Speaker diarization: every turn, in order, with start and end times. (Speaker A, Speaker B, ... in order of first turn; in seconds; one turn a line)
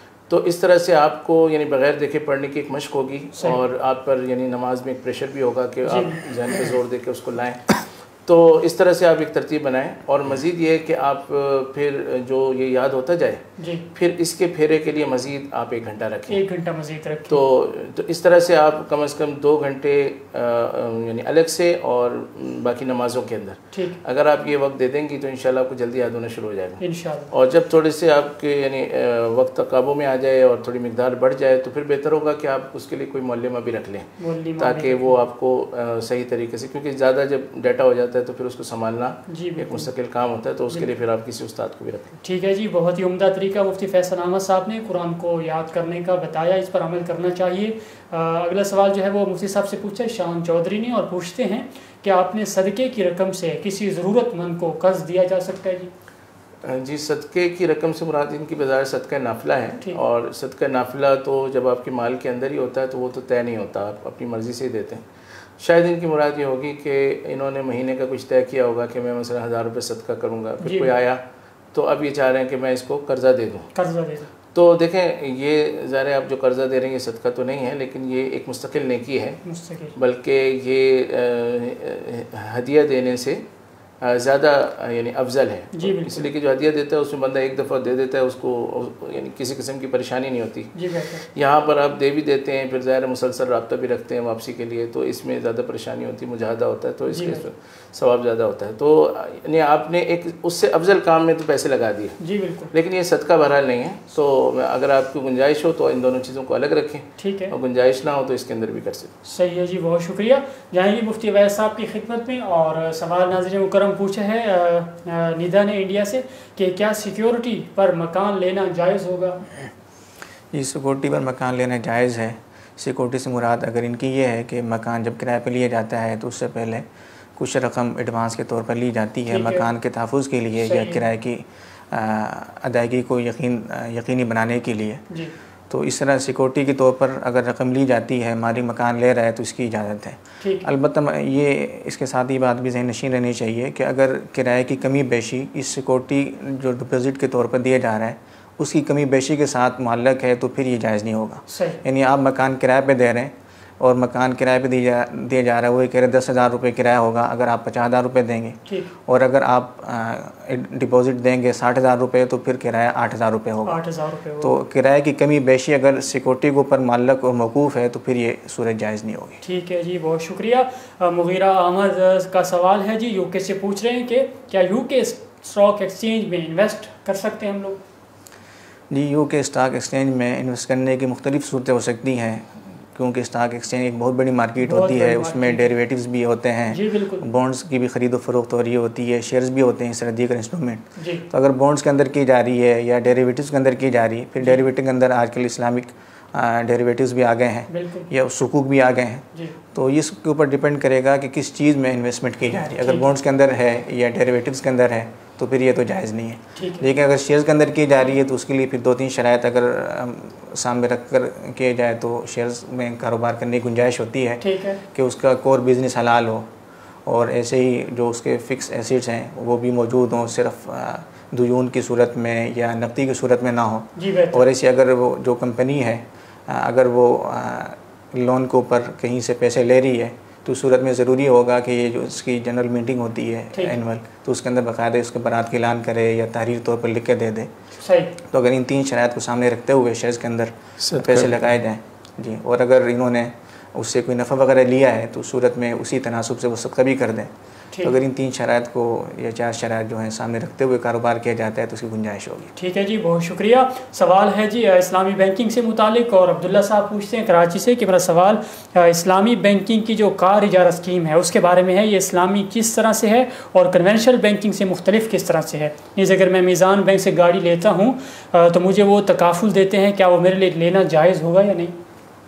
Speaker A: 0.3-16.4
Speaker B: 5.8-6.2
Speaker B: 13.6-13.8
Speaker B: 16.3-17.4
Speaker A: 17.3-42.2
Speaker B: 23.7-24.0
Speaker B: 26.8-27.3
Speaker B: 34.2-35.2
Speaker B: 39.3-39.9
Speaker B: 42.2-55.9
Speaker A: 56.6-65.0
Speaker A: 65.6-71.2
Speaker B: 70.6-70.9
Speaker A: 71.7-73.7
Speaker B: 73.7-74.3
Speaker A: 74.5-79.4
Speaker B: 79.5-79.9
Speaker A: 79.9-83.4
Speaker A: 84.0-102.2
Speaker B: 85.7-86.2
Speaker B: 90.7-91.2
Speaker B: 97.1-97.4
Speaker B: 102.2-102.7
Speaker A: 102.7-109.1
Speaker B: 107.2-107.5
Speaker B: 109.2-119.4
Speaker C: 120.5-135.0
Speaker B: 129.3-129.7
Speaker B: 130.6-131.0
Speaker C: 135.7-163.8
Speaker B: 140.4-140.7
Speaker B: 151.5-151.8
Speaker B: 163.6-164.5
Speaker C: 164.4-169.4
Speaker B: 169.4-177.8
Speaker C: 178.9-216.5
Speaker B: 184.6-185.7
Speaker B: 186.7-187.2
Speaker B: 191.0-191.2
Speaker B: 197.7-198.1
Speaker B: 206.6-206.9
Speaker B: 214.4-214.8
Speaker C: 217.1-237.5
Speaker B: 223.9-224.4
Speaker B: 237.8-238.1
Speaker C: 238.2-252.5
Speaker A: 240.8-241.3
Speaker B: 252.6-271.7